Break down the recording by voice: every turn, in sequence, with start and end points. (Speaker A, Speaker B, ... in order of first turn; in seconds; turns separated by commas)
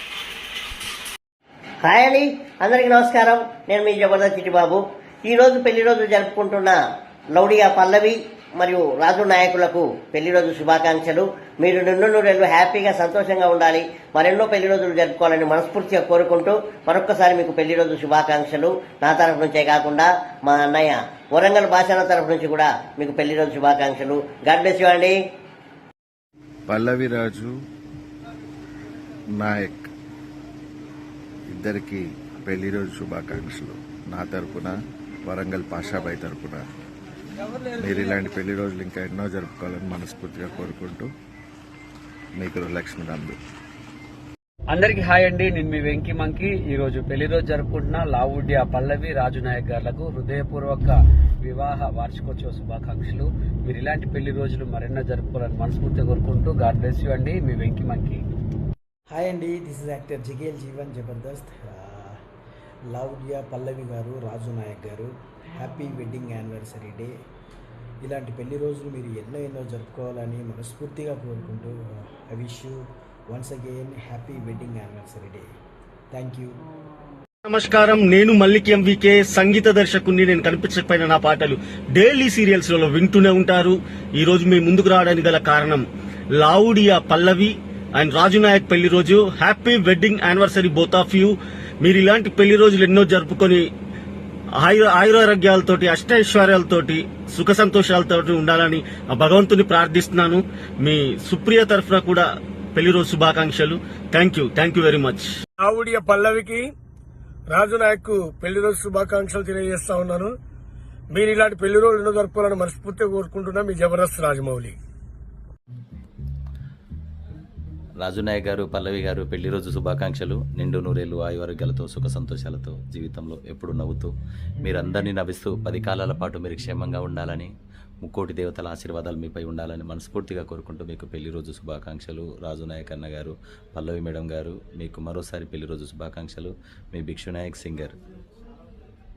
Speaker A: 1.8-25.2, Speaker B: 26.7-27.5, Speaker B: 29.3-29.9, Speaker B: 31.5-34.7, Speaker B: 35.2-36.6, Speaker B: 37.8-41.1, Speaker B: 42.4-43.4, Speaker C: 44.7-58.2, Speaker D: 59.1-62.2, Speaker D: 62.9-67.1, Speaker D: 68.0-72.8, Speaker D: 73.3-75.5, Speaker D: 76.1-76.5, Speaker E: 77.5-93.7, Speaker E: 94.6-105.3, Speaker F: 105.6-106.7, Speaker F: 107.5-110.3, Speaker F: 111.1-114.8, Speaker G: 118.0-124.1, Speaker G: 124.6-127.5, Speaker G: 128.0-137.9